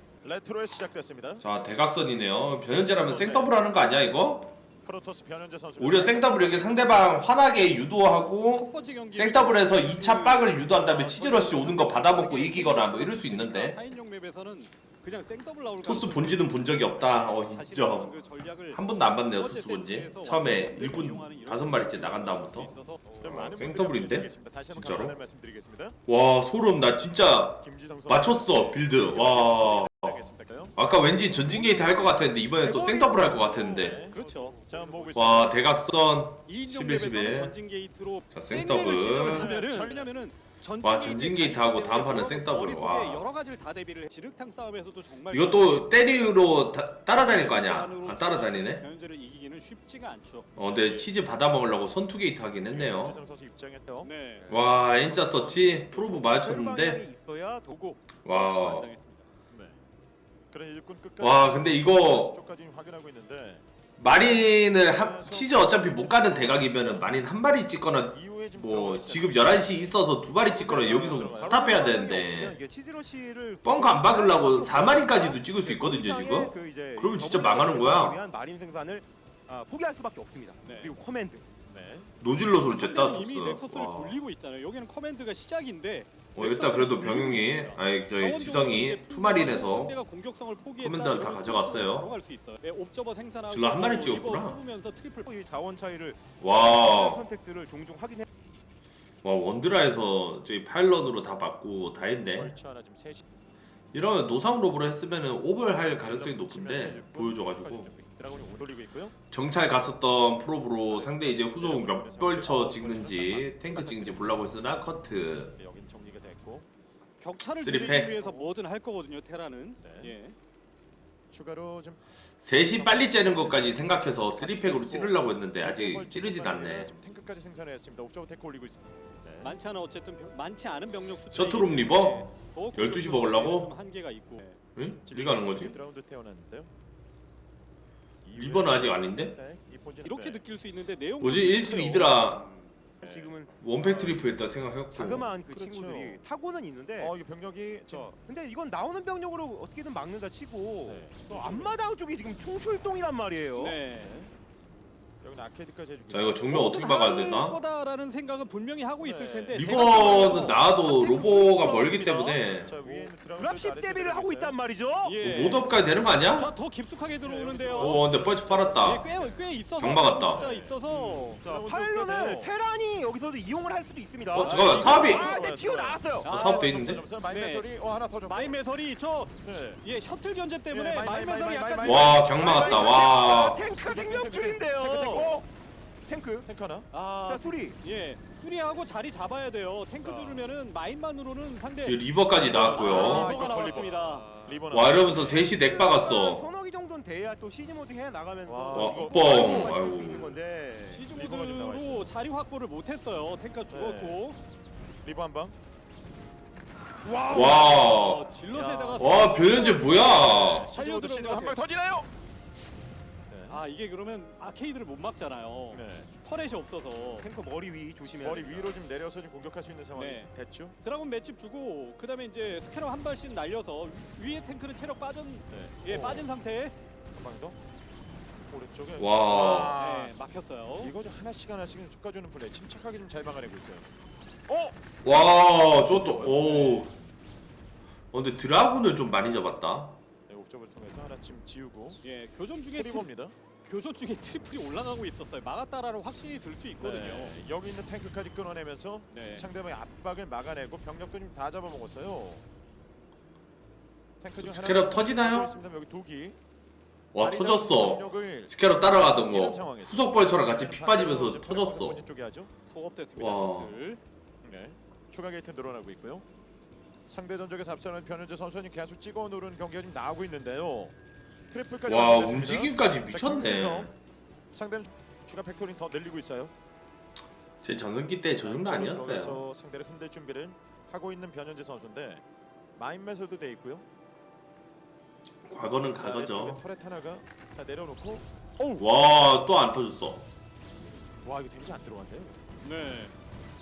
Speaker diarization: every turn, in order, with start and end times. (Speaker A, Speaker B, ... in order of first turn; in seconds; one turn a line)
Speaker A: 0.2-1.4
Speaker B: 1.4-4.5
Speaker A: 3.0-3.5
Speaker A: 4.8-6.8
Speaker B: 5.8-13.8
Speaker C: 8.5-23.6
Speaker B: 15.8-18.1
Speaker B: 18.7-22.7
Speaker A: 23.1-26.0
Speaker D: 23.1-23.4
Speaker B: 23.2-25.2
Speaker B: 26.1-34.0
Speaker A: 27.6-30.8
Speaker D: 31.3-35.1
Speaker A: 33.3-35.6
Speaker C: 34.1-35.4
Speaker B: 35.1-37.6
Speaker C: 36.5-46.1
Speaker B: 38.3-39.5
Speaker A: 39.1-40.1
Speaker B: 40.8-43.2
Speaker B: 45.3-48.8
Speaker C: 47.2-51.1
Speaker B: 50.6-53.2
Speaker A: 52.7-54.1
Speaker C: 54.0-54.5
Speaker D: 54.4-54.8
Speaker B: 54.5-57.0
Speaker A: 54.7-56.2
Speaker D: 55.9-58.1
Speaker B: 58.2-58.9
Speaker C: 58.2-59.3
Speaker A: 59.5-59.8
Speaker A: 60.5-63.6
Speaker B: 61.2-62.4
Speaker B: 64.0-72.6
Speaker A: 64.2-67.1
Speaker A: 68.1-69.6
Speaker A: 70.4-71.6
Speaker D: 70.6-81.5
Speaker B: 73.6-78.2
Speaker C: 80.6-81.0
Speaker A: 81.7-82.1
Speaker B: 82.2-84.2
Speaker C: 82.7-95.3
Speaker B: 86.3-90.0
Speaker A: 87.0-87.8
Speaker B: 90.8-92.1
Speaker B: 93.5-94.6
Speaker D: 95.2-98.2
Speaker B: 96.4-97.2
Speaker B: 99.2-102.5
Speaker A: 102.3-103.2
Speaker B: 103.9-107.9
Speaker A: 106.0-109.2
Speaker B: 109.3-115.5
Speaker A: 110.9-113.9
Speaker C: 113.8-114.2
Speaker A: 115.5-116.7
Speaker C: 117.2-120.3
Speaker B: 117.6-118.2
Speaker A: 118.2-118.5
Speaker A: 119.8-120.2
Speaker A: 121.3-122.0
Speaker B: 122.4-126.9
Speaker A: 122.7-129.6
Speaker C: 129.4-134.6
Speaker B: 131.3-133.7
Speaker B: 134.8-135.8
Speaker A: 135.0-136.7
Speaker A: 138.2-140.4
Speaker B: 138.3-139.3
Speaker C: 140.0-142.2
Speaker B: 141.2-142.4
Speaker D: 141.8-144.2
Speaker A: 143.0-143.3
Speaker B: 143.6-145.3
Speaker D: 144.9-147.1
Speaker A: 145.5-146.2
Speaker A: 147.0-148.1
Speaker D: 147.9-153.8
Speaker A: 150.9-151.8
Speaker C: 153.5-154.2
Speaker A: 154.0-154.3
Speaker A: 155.2-156.5
Speaker B: 156.1-157.6
Speaker C: 156.5-162.9
Speaker A: 159.0-160.6
Speaker B: 159.5-162.8
Speaker A: 162.3-164.6
Speaker D: 162.9-165.2
Speaker C: 165.0-165.7
Speaker B: 165.2-166.5
Speaker C: 166.3-168.0
Speaker A: 167.2-169.4
Speaker B: 167.8-169.1
Speaker C: 168.8-171.4
Speaker B: 169.8-170.5
Speaker A: 170.2-172.5
Speaker D: 171.4-176.3
Speaker B: 174.3-175.3
Speaker C: 174.4-175.2
Speaker A: 174.4-178.6
Speaker C: 176.2-176.7
Speaker B: 176.3-177.0
Speaker C: 177.3-177.7
Speaker C: 178.2-182.2
Speaker A: 179.4-179.8
Speaker A: 180.7-185.4
Speaker B: 181.8-183.6
Speaker D: 182.0-185.4
Speaker D: 186.1-186.5
Speaker A: 186.5-186.9
Speaker C: 186.9-194.3
Speaker D: 187.2-187.8
Speaker D: 190.0-190.5
Speaker B: 191.8-193.4
Speaker A: 192.4-195.5
Speaker D: 192.6-194.7
Speaker B: 194.7-196.4
Speaker D: 195.2-201.1
Speaker A: 198.5-199.8
Speaker B: 198.7-200.3
Speaker C: 200.9-204.4
Speaker A: 201.1-202.2
Speaker A: 203.7-204.2
Speaker A: 205.0-205.6
Speaker A: 207.0-212.1
Speaker B: 207.3-208.2
Speaker C: 207.8-211.6
Speaker B: 209.0-210.7
Speaker A: 213.3-213.6
Speaker C: 213.5-217.2
Speaker A: 215.7-216.1
Speaker D: 217.2-218.8
Speaker A: 218.2-220.8
Speaker C: 219.9-220.3
Speaker C: 220.8-226.7
Speaker A: 225.5-226.3
Speaker A: 227.1-227.6
Speaker A: 228.5-230.1
Speaker B: 229.0-229.8
Speaker C: 229.3-230.9
Speaker A: 230.8-233.9
Speaker A: 234.5-234.8
Speaker B: 235.0-236.9
Speaker A: 235.3-236.9
Speaker B: 238.1-240.0
Speaker A: 240.3-242.0
Speaker C: 242.0-243.1
Speaker A: 242.8-243.3
Speaker C: 243.6-247.4
Speaker A: 246.8-252.4
Speaker C: 249.1-249.4
Speaker A: 254.2-256.4
Speaker B: 254.4-255.5
Speaker B: 257.1-262.1
Speaker A: 257.2-262.5
Speaker C: 262.7-264.0
Speaker B: 263.2-263.7
Speaker A: 264.4-266.3
Speaker A: 267.1-270.9
Speaker A: 271.5-273.9
Speaker B: 271.9-273.9
Speaker A: 274.5-276.5
Speaker B: 277.6-279.4
Speaker A: 278.4-282.2
Speaker A: 282.8-283.9
Speaker B: 285.5-286.6
Speaker A: 286.0-288.9
Speaker B: 288.8-290.2
Speaker A: 291.2-292.4
Speaker C: 292.6-293.1